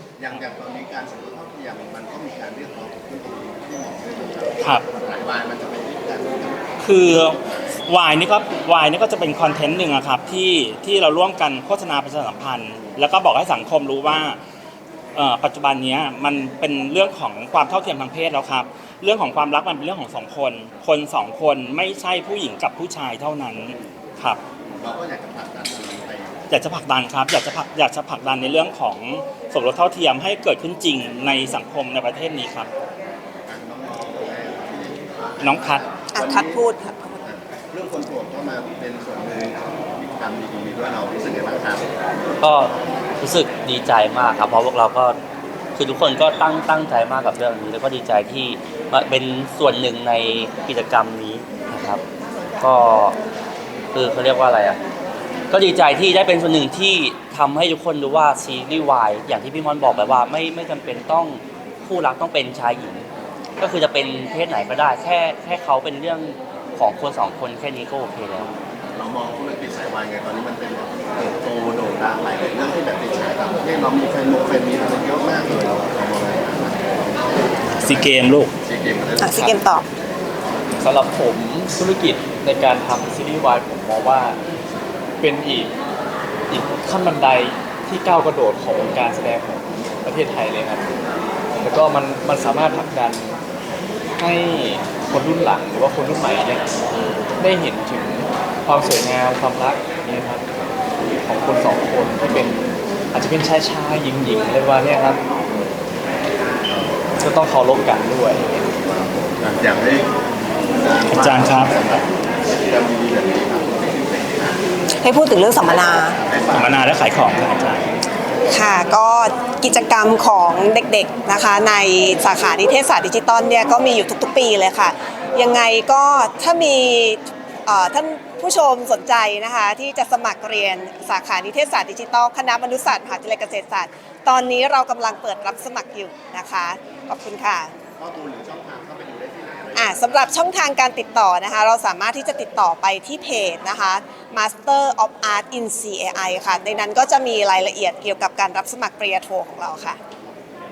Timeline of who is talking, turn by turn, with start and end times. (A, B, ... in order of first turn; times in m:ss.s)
0:00.2-0:06.7 A
0:06.8-0:14.4 B
0:15.1-0:24.4 B
0:24.8-0:26.4 A
0:26.5-0:32.7 B
0:33.5-0:36.6 A
0:35.4-0:35.8 B
0:36.1-0:37.2 C
0:37.2-0:41.9 A
0:42.4-0:45.2 D
0:45.8-0:52.0 D
0:52.6-0:53.2 D
0:53.9-0:54.8 D
0:55.5-1:03.1 D
1:03.6-1:08.5 D
1:09.0-1:18.1 A
1:17.8-1:18.5 B
1:18.6-1:19.5 A
1:19.2-1:19.8 C
1:20.8-1:24.4 E
1:25.2-1:25.8 E
1:26.5-1:30.9 E
1:31.6-1:33.4 E
1:34.2-1:36.6 E
1:37.4-1:40.5 E
1:41.2-1:45.2 E
1:47.2-1:48.7 E
1:49.3-1:50.1 A
1:50.7-1:54.6 A
1:51.1-1:51.7 B
1:55.0-1:56.2 C
1:56.2-1:56.8 A
1:56.5-1:57.9 B
1:58.5-2:17.7 C
2:18.0-2:20.1 A
2:19.7-2:30.0 C